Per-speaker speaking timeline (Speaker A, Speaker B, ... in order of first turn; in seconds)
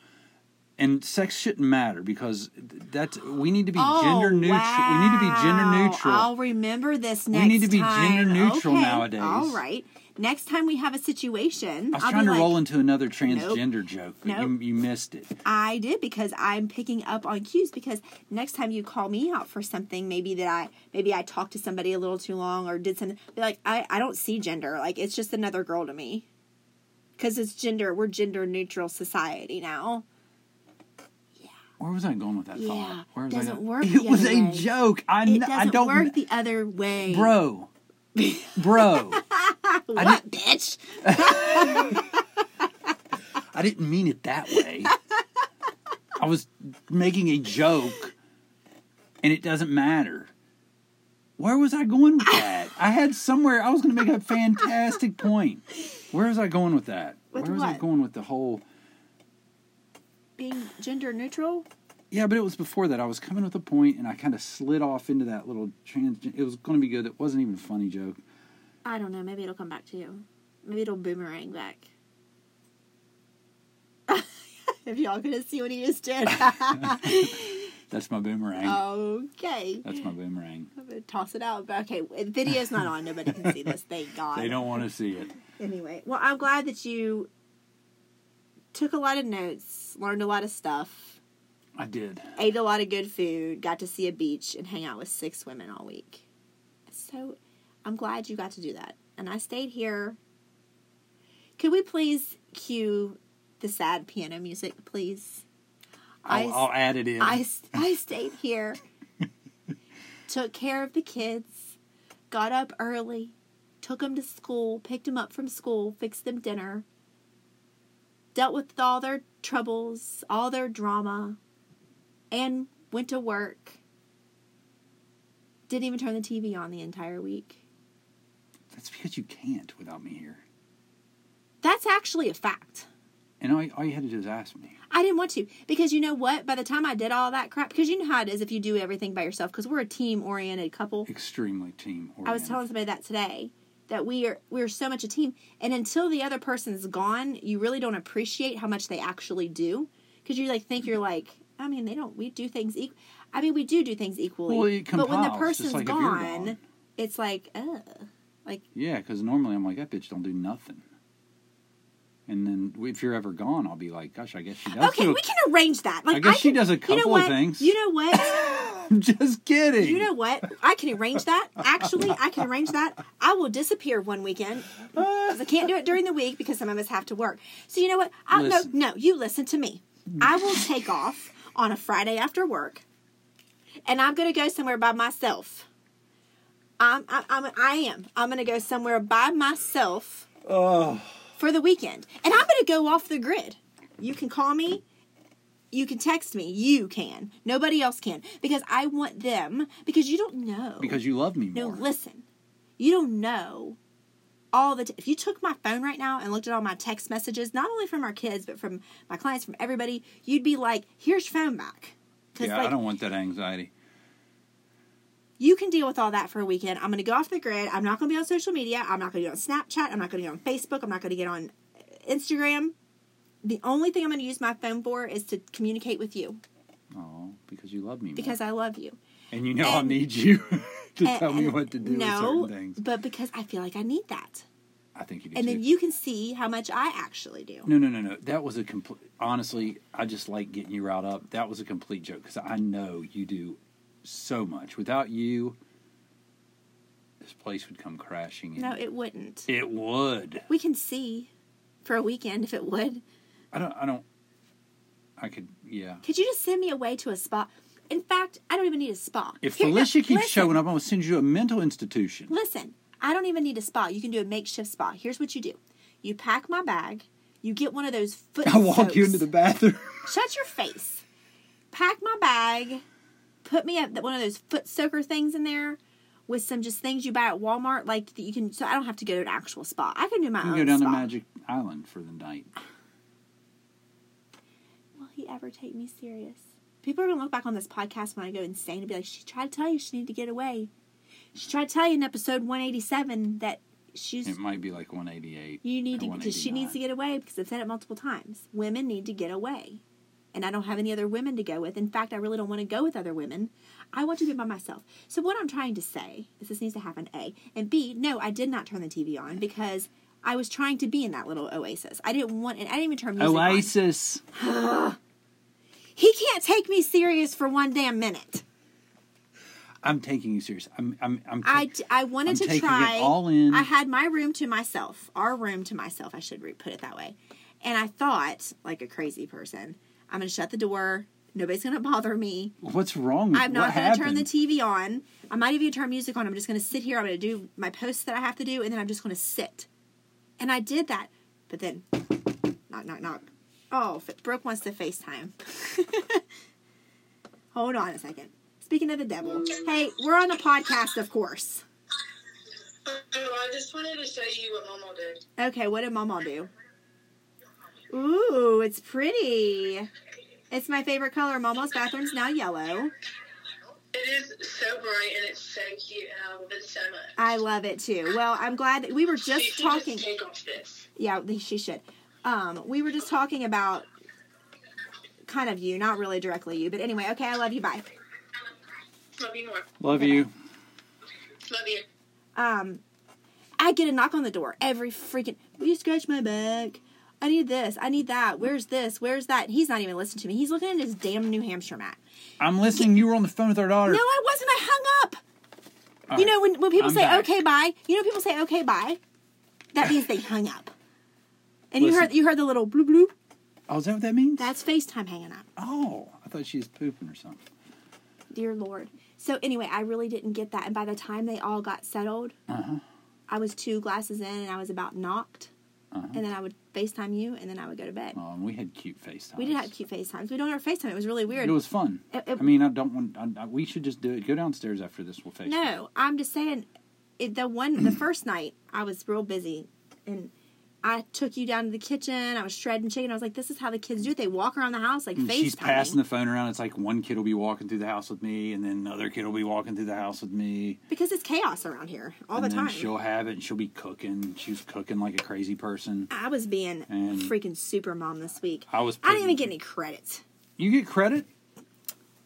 Speaker A: 0.8-6.3, 7.3-9.6, 11.9-15.3, 31.8-36.2, 37.1-37.7, 38.5-39.2, 40.0-40.2, 41.0-42.0, 43.5-45.0, 46.1-48.1, 49.2-50.3, 51.4-58.6, 62.1-68.2, 76.7-77.3, 77.9-78.8, 79.8-80.7, 84.3-85.4, 91.8-92.3, 106.3-107.4, 128.7-130.4, 133.4-134.8, 141.1-142.6, 154.5-156.6, 158.7-160.8, 162.3-165.2, 166.1-170.1, 174.9-175.4, 178.3-178.7, 190.4-191.3, 200.8-201.8, 212.4-213.7, 226.9-228.4, 229.3-232.8, 234.9-235.7, 237.7-245.6, 247.2-248.8, 249.5-250.5, 253.5-254.1, 255.2-256.0, 259.4-262.3, 268.4-270.1, 280.4-282.5, 294.2-296.8, 313.2-314.2, 319.8-321.7, 322.2-323.7, 332.6-334.3, 379.8-380.3, 392.4-394.0, 396.1-397.3, 401.8-402.1, 403.7-404.5, 405.6-407.4, 412.5-412.8, 415.9-416.2, 418.1-419.7, 421.4-425.7, 435.2-440.8, 442.3-446.1, 446.9-447.3, 448.7-449.5, 450.6-451.3
Speaker B: 3.8-12.6, 13.2-13.6, 14.2-14.5, 15.4-26.3, 27.2-30.1, 32.5-34.7, 35.2-37.3, 38.1-42.2, 57.3-57.8, 60.4-61.7, 68.8-71.9, 74.1-77.7, 78.6-79.9, 80.8-84.8, 85.5-87.3, 88.7-91.2, 92.4-96.2, 96.9-100.2, 101.6-105.4, 106.2-108.8, 110.3-111.8, 112.3-116.9, 118.3-121.4, 122.3-123.8, 125.7-127.6, 131.6-132.9, 134.9-141.1, 142.2-158.6, 164.7-168.6, 169.8-182.8, 183.9-185.7, 186.8-190.3, 191.4-194.8, 195.7-201.0, 201.5-202.2, 202.8-203.8, 204.5-212.8, 215.4-222.8, 223.4-226.4, 228.2-229.0, 229.6-230.0, 231.0-234.5, 235.3-237.7, 248.6-249.5, 250.5-251.3, 251.8-253.0, 256.0-260.6, 262.3-269.3, 270.1-271.0, 271.7-272.8, 273.4-281.1, 285.0-290.7, 291.4-294.4, 295.6-299.8, 300.3-313.7, 314.3-315.0, 316.0-318.4, 321.4-332.6, 333.3-339.7, 340.4-341.9, 342.7-346.2, 347.5-351.6, 355.4-356.5, 357.9-359.9, 360.5-362.9, 367.2-370.1, 371.0-373.9, 375.2-377.9, 382.4-382.8, 383.6-392.0, 393.9-395.2, 396.1-399.0, 399.7-400.7, 401.7-403.1, 404.4-405.5, 408.3-412.4, 413.3-415.5, 416.1-418.2, 419.4-421.6, 422.1-422.5, 425.5-426.7, 427.2-430.3, 430.8-436.0, 440.9-442.9, 446.1-450.2
Speaker C: 352.9-355.2, 363.9-367.3, 369.2-370.9, 379.2-379.7, 381.5-381.8